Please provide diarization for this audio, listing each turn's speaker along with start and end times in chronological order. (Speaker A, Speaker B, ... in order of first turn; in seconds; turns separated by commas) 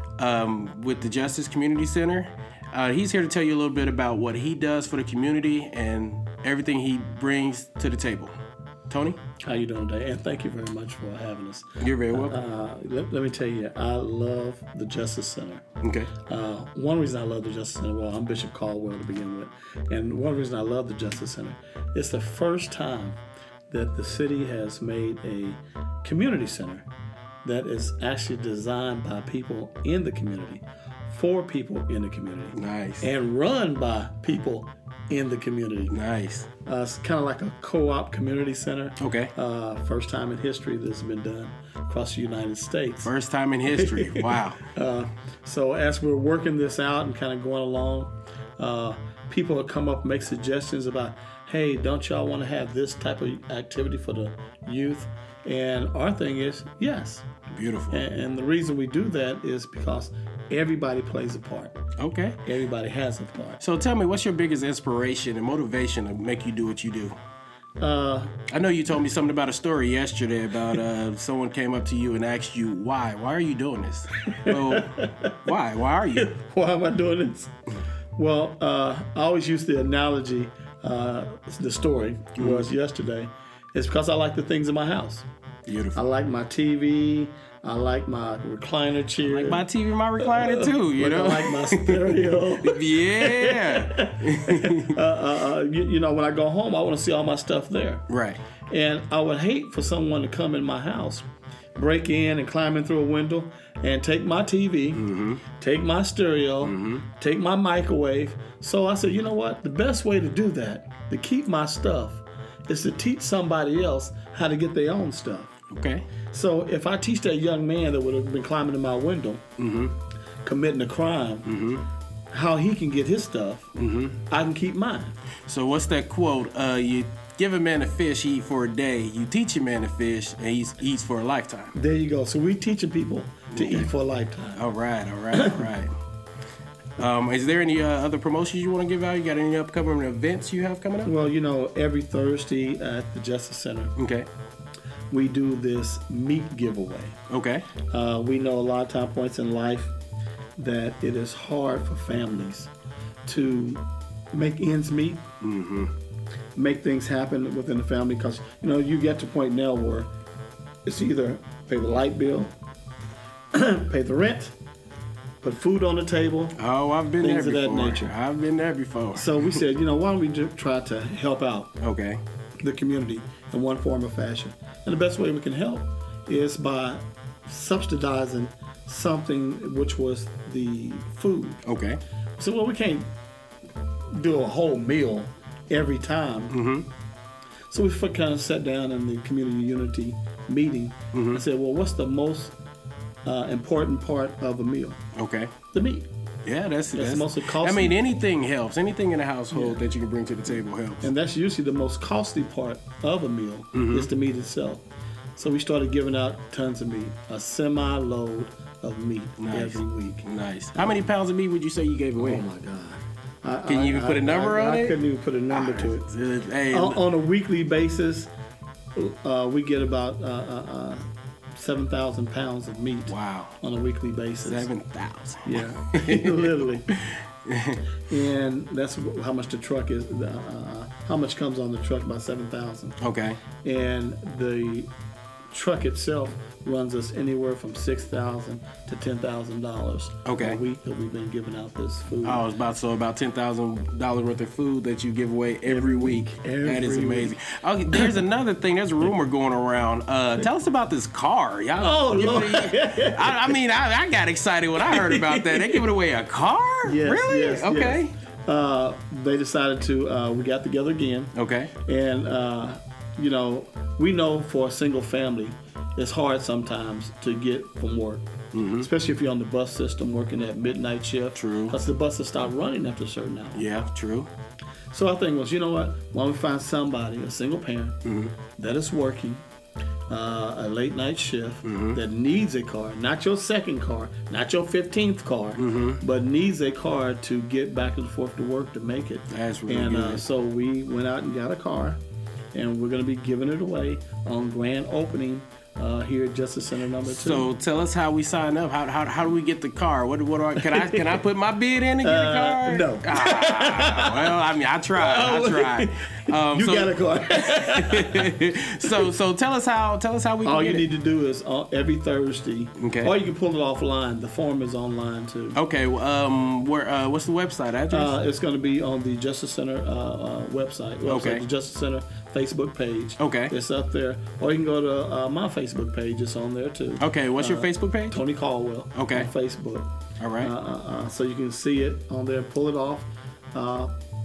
Speaker A: 0.2-8.3, Speaker A: 8.9-9.2, Speaker B: 9.4-15.6, Speaker A: 11.8-12.4, Speaker A: 15.8-16.1, Speaker B: 16.3-23.2, Speaker B: 23.7-26.9, Speaker B: 27.4-35.9, Speaker A: 32.5-33.1, Speaker A: 35.9-36.5, Speaker B: 36.6-43.1, Speaker A: 39.0-39.3, Speaker A: 43.0-44.6, Speaker B: 43.7-57.2, Speaker A: 57.5-58.0, Speaker B: 57.9-61.8, Speaker A: 62.0-62.4, Speaker B: 62.4-63.6, Speaker A: 63.6-67.2, Speaker B: 67.8-68.3, Speaker A: 68.5-76.3, Speaker B: 74.3-75.4, Speaker B: 76.2-77.5, Speaker B: 78.2-85.3, Speaker A: 82.3-82.7, Speaker A: 85.7-86.0, Speaker B: 85.9-89.7, Speaker A: 89.2-94.9, Speaker B: 90.2-98.0, Speaker A: 98.1-98.4, Speaker B: 98.7-115.5, Speaker A: 104.9-105.4, Speaker A: 106.6-107.1, Speaker A: 115.7-116.0, Speaker B: 116.3-119.4, Speaker A: 119.6-120.0, Speaker B: 120.4-121.5, Speaker A: 121.4-121.9, Speaker B: 122.3-123.7, Speaker A: 123.7-124.2, Speaker B: 124.3-125.2, Speaker A: 125.4-131.7, Speaker B: 131.7-134.6, Speaker A: 133.5-133.9, Speaker A: 134.5-135.9, Speaker B: 135.3-135.7, Speaker A: 137.0-141.1, Speaker B: 141.0-143.9, Speaker A: 143.9-144.3, Speaker B: 145.1-147.2, Speaker A: 147.3-147.7, Speaker B: 147.9-149.9, Speaker B: 150.6-152.7, Speaker B: 153.2-155.2, Speaker A: 155.4-155.9, Speaker B: 156.6-160.1, Speaker B: 160.8-162.6, Speaker B: 163.5-164.6, Speaker B: 165.4-166.6, Speaker A: 166.5-169.6, Speaker B: 167.2-168.1, Speaker B: 169.1-171.8, Speaker A: 171.8-172.2, Speaker B: 172.6-181.6, Speaker A: 181.6-182.0, Speaker B: 182.4-183.1, Speaker B: 184.1-186.6, Speaker A: 186.5-186.9, Speaker B: 187.7-192.5, Speaker A: 191.1-191.4, Speaker B: 193.2-195.0, Speaker A: 195.1-195.5, Speaker B: 195.7-196.1, Speaker A: 196.4-201.1, Speaker B: 196.9-198.0, Speaker B: 199.5-199.8, Speaker B: 201.0-210.2, Speaker A: 203.7-204.1, Speaker A: 209.4-212.4, Speaker B: 212.2-216.1, Speaker A: 213.7-215.0, Speaker A: 215.5-217.0, Speaker B: 216.7-218.3, Speaker B: 218.9-224.7, Speaker A: 223.1-223.6, Speaker A: 224.4-227.9, Speaker B: 225.4-226.9, Speaker B: 228.1-233.0, Speaker A: 233.0-233.4, Speaker B: 233.6-234.9, Speaker B: 235.5-242.4, Speaker A: 240.2-240.6, Speaker A: 242.2-258.1, Speaker B: 245.7-247.4, Speaker B: 247.9-248.2, Speaker B: 251.8-253.6, Speaker B: 254.8-255.9, Speaker B: 256.8-273.6, Speaker A: 261.3-261.7, Speaker A: 268.5-268.9, Speaker A: 271.3-271.8, Speaker A: 273.5-274.3, Speaker B: 274.9-278.0, Speaker A: 278.0-278.3, Speaker B: 278.5-279.4, Speaker B: 280.1-292.0, Speaker A: 281.6-282.0, Speaker A: 285.6-286.0, Speaker A: 289.3-290.2, Speaker B: 292.5-297.5, Speaker A: 297.0-310.9, Speaker B: 300.6-301.2, Speaker B: 302.0-304.4, Speaker B: 304.9-308.3, Speaker B: 310.4-315.6, Speaker A: 312.8-313.1, Speaker A: 315.5-318.1, Speaker B: 317.9-333.9, Speaker A: 321.0-321.4, Speaker A: 323.2-323.5, Speaker A: 327.0-328.2, Speaker A: 328.9-329.3, Speaker A: 330.2-330.5